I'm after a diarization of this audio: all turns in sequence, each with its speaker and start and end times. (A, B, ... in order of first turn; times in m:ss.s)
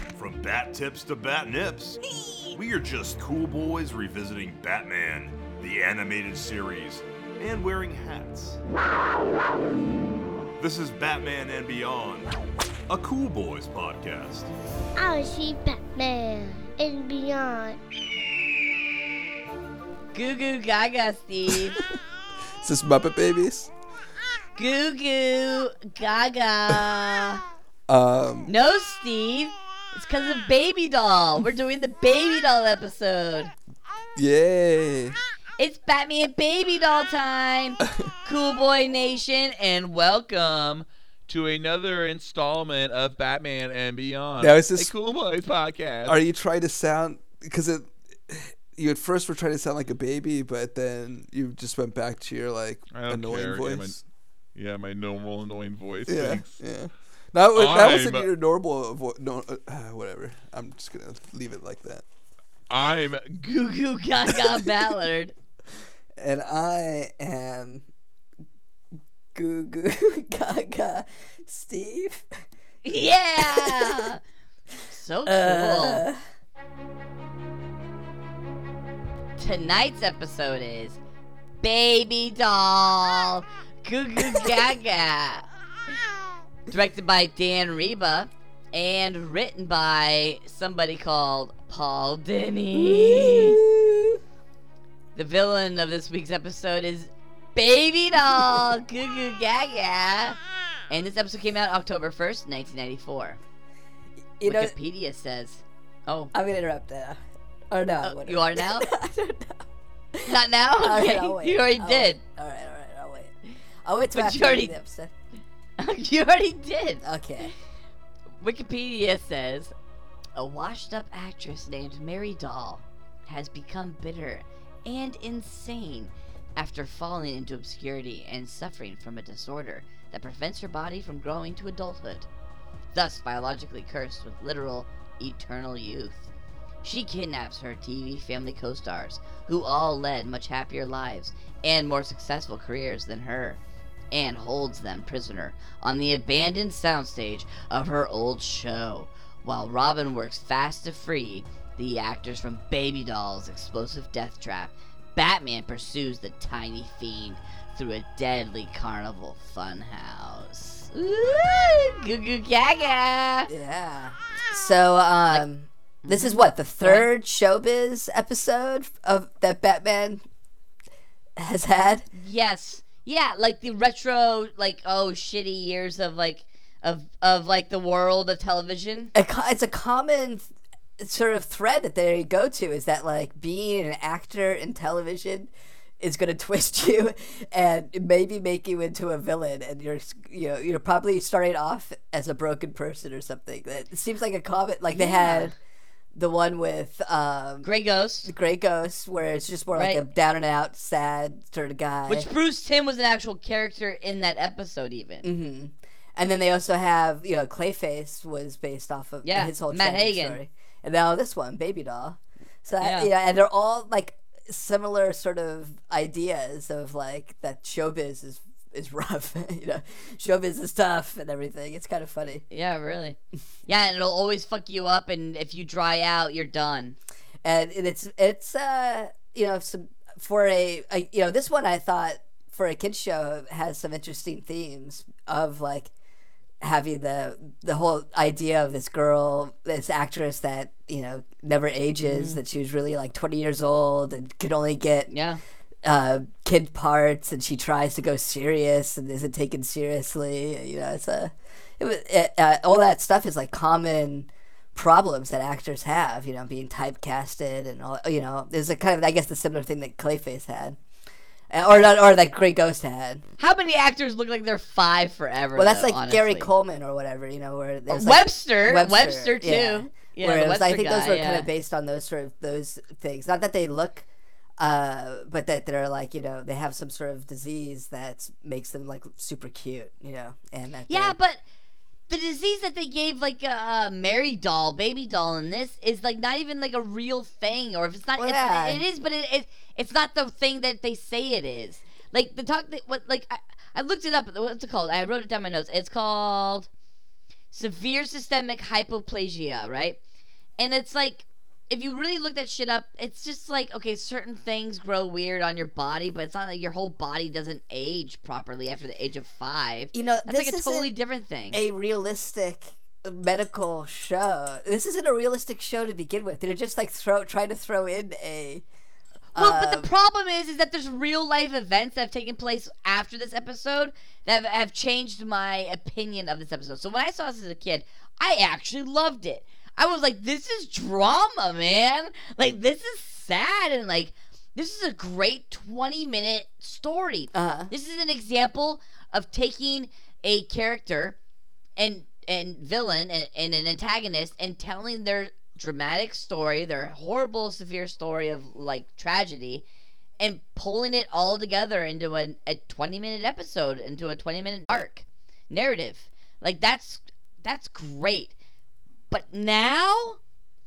0:00.1-0:02.0 A
0:02.5-0:08.6 A
0:10.6-0:12.3 A
0:12.9-0:14.5 A
0:15.0-0:17.8 B
0:20.1-0:21.8 C
0:22.6-0:23.7 D
0:24.6-0:27.4 C
0:27.9-0:28.5 D
0:28.5-0:33.5 C
0:34.2-0:35.2 D
0:35.6-0:40.5 C
0:40.5-0:46.2 E
0:44.4-0:44.9 D
0:46.0-0:54.0 D
0:52.9-0:56.8 E
0:56.1-1:02.0 D
0:57.5-0:58.3 E
1:02.7-1:03.5 E
1:03.4-1:05.3 C
1:06.2-1:07.8 F
1:09.3-1:12.2 F
1:12.8-1:14.2 C
1:13.4-1:14.1 F
1:14.9-1:16.0 C
1:15.2-1:16.2 F
1:19.4-1:21.0 C
1:21.6-1:25.4 C
1:24.2-1:24.5 F
1:26.7-1:33.6 C
1:32.7-1:34.2 F
1:35.1-1:40.4 C
1:40.9-1:43.4 C
1:44.4-1:44.7 F
1:44.4-1:46.3 C
1:46.3-1:55.1 F
1:48.0-1:48.9 C
1:50.3-1:52.2 C
1:54.1-1:54.7 C
1:55.8-1:57.0 C
1:57.0-1:57.5 F
1:58.4-1:59.7 C
2:00.3-2:12.3 C
2:12.9-2:16.3 C
2:16.8-2:23.6 C
2:24.1-2:43.5 C
2:43.5-2:50.2 F
2:46.0-2:47.1 C
2:51.4-2:52.0 F
2:52.1-2:59.1 C
2:59.1-3:15.6 F
3:14.9-3:15.5 C
3:16.1-3:17.7 F
3:17.6-3:18.3 C
3:18.2-3:22.3 F
3:19.7-3:20.0 C
3:22.1-3:25.2 C
3:25.2-3:42.4 F
3:29.2-3:30.4 C
3:32.8-3:33.1 C
3:42.5-3:47.0 C
3:47.4-3:55.9 F
3:56.6-4:05.1 F
4:02.0-4:02.4 C
4:05.1-4:05.4 C
4:05.8-4:20.8 F
4:21.5-4:23.2 F
4:23.4-4:26.5 C
4:25.5-4:34.0 F
4:27.9-4:31.5 C
4:34.6-4:41.1 F
4:40.9-4:41.4 C
4:42.1-4:56.7 C
4:48.2-4:48.8 F
4:57.5-5:00.0 C
5:00.6-5:11.6 C
5:09.9-5:10.9 F
5:11.5-5:18.6 F
5:19.3-5:19.9 F
5:19.3-5:41.2 C
5:37.3-5:37.7 F
5:41.8-5:49.6 C
5:50.2-5:58.3 C
5:59.1-6:00.2 C